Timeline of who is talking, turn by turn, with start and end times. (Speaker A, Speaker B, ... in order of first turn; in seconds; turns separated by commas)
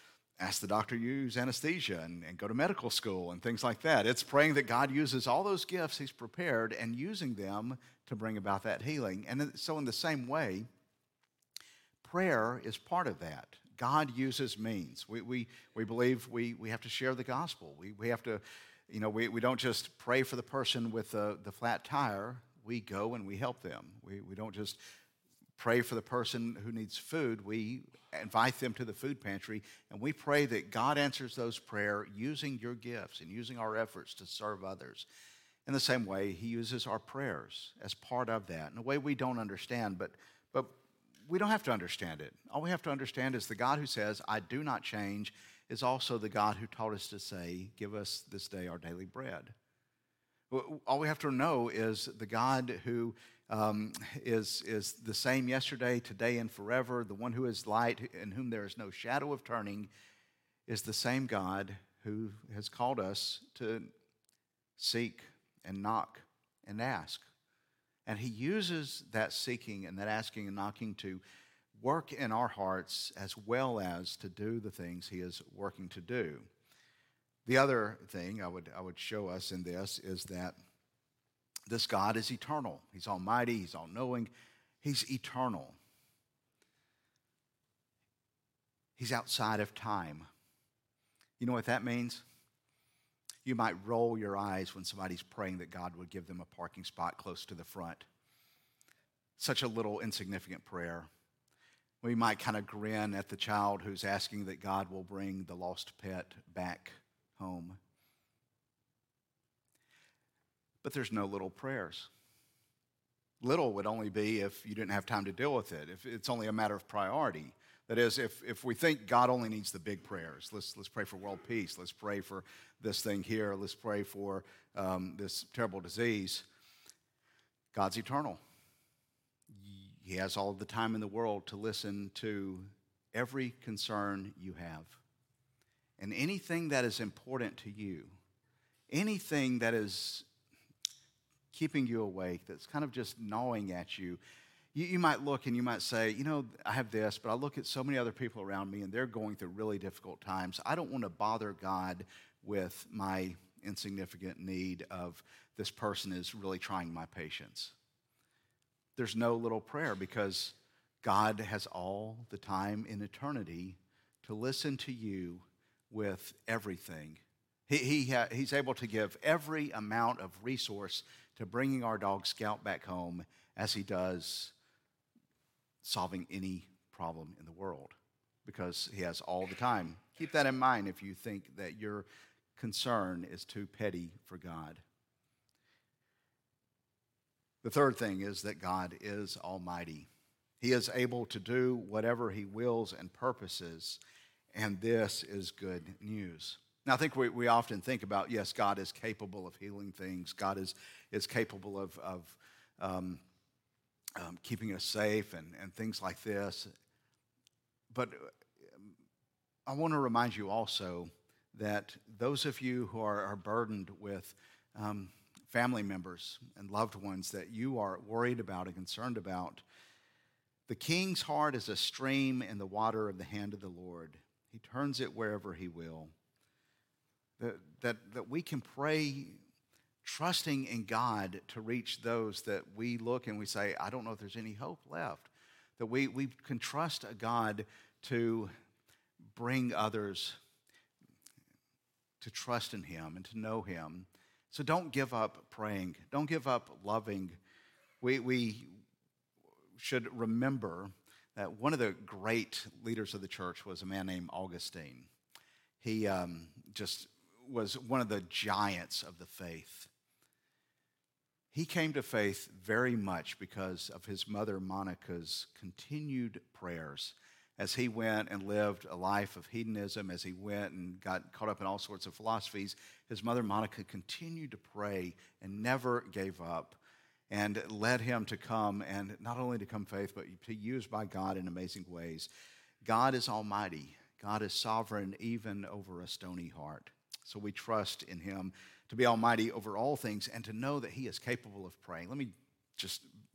Speaker A: 0.4-10.7, Speaker A: 12.0-24.8, Speaker A: 25.6-35.1, Speaker A: 35.7-40.7, Speaker A: 41.3-49.5, Speaker A: 50.5-59.9, Speaker A: 60.7-63.9, Speaker A: 64.8-67.3, Speaker A: 68.1-71.2, Speaker A: 71.7-76.5, Speaker A: 77.5-80.6, Speaker A: 81.7-84.3, Speaker A: 84.8-85.8, Speaker A: 89.0-90.3, Speaker A: 91.4-92.2, Speaker A: 93.5-98.1, Speaker A: 99.4-101.1, Speaker A: 102.0-107.8, Speaker A: 110.8-112.1, Speaker A: 113.4-126.5, Speaker A: 127.7-128.4, Speaker A: 129.5-135.0, Speaker A: 136.0-138.1, Speaker A: 138.9-140.3, Speaker A: 141.5-144.2, Speaker A: 144.7-157.8, Speaker A: 159.0-174.5, Speaker A: 175.8-184.8, Speaker A: 187.6-190.1, Speaker A: 190.6-194.0, Speaker A: 194.5-203.2, Speaker A: 204.2-206.7, Speaker A: 207.9-208.9, Speaker A: 209.7-219.6, Speaker A: 220.7-226.1, Speaker A: 227.4-229.4, Speaker A: 230.0-238.5, Speaker A: 239.3-240.4, Speaker A: 242.2-247.4, Speaker A: 248.0-248.7, Speaker A: 249.8-255.1, Speaker A: 255.8-259.9, Speaker A: 261.5-282.3, Speaker A: 282.8-293.1